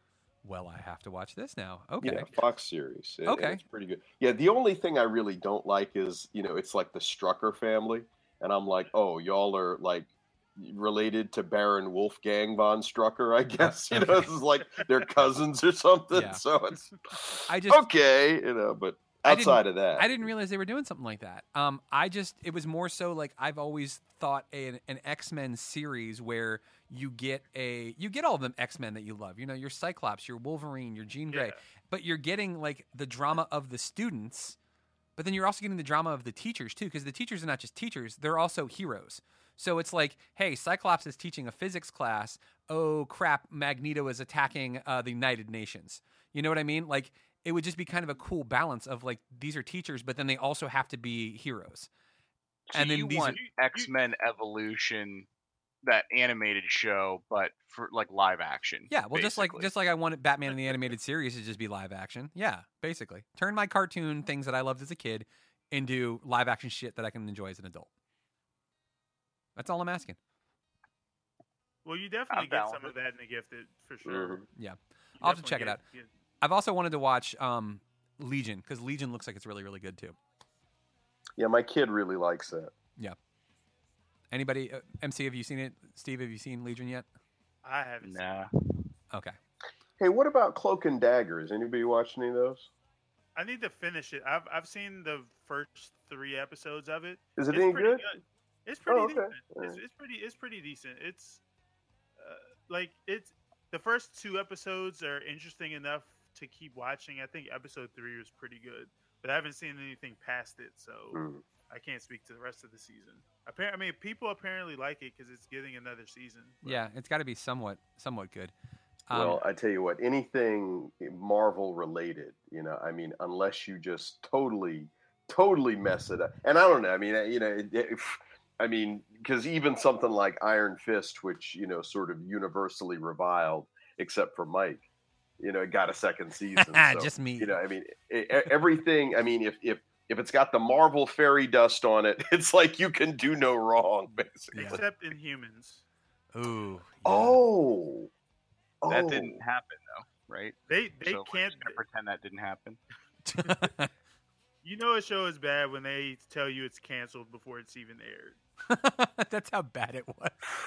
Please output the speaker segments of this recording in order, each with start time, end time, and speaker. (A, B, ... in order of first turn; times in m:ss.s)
0:00.4-0:02.4 A
0:02.0-0:20.2 B
0:03.3-0:03.6 A
0:13.6-0:14.3 A
0:16.1-0:16.4 A
0:17.5-0:17.8 A
0:19.3-0:34.6 A
0:31.3-0:31.6 C
0:35.2-0:51.9 A
0:52.7-0:55.3 D
0:52.7-0:53.4 A
0:53.4-0:53.9 C
0:55.8-0:59.7 D
0:58.9-1:07.9 A
1:09.6-1:10.2 A
1:11.8-1:14.5 C
1:12.3-1:12.9 D
1:14.0-1:14.4 B
1:14.6-1:15.8 A
1:15.2-1:16.1 C
1:16.4-1:20.2 A
1:21.4-1:22.7 B
1:24.3-1:27.1 A
1:27.6-1:28.4 C
1:28.0-1:28.5 D
1:29.1-1:29.4 A
1:30.0-1:32.7 B
1:33.4-1:41.4 C
1:37.4-1:38.0 B
1:38.9-1:39.8 B
1:42.2-1:56.8 C
1:51.1-1:51.4 B
1:56.6-1:58.5 A
1:59.1-1:59.4 A
1:59.1-2:14.8 B
2:15.4-2:24.8 B
2:16.6-2:17.6 A
2:24.5-2:24.8 A
2:24.6-2:25.8 C
2:26.3-2:27.4 A
2:27.0-2:28.1 B
2:28.8-2:29.4 B
2:28.9-2:32.8 D
2:30.7-2:31.8 C
2:33.2-2:33.9 A
2:33.4-2:33.7 C
2:34.6-2:38.4 C
2:38.7-2:40.4 A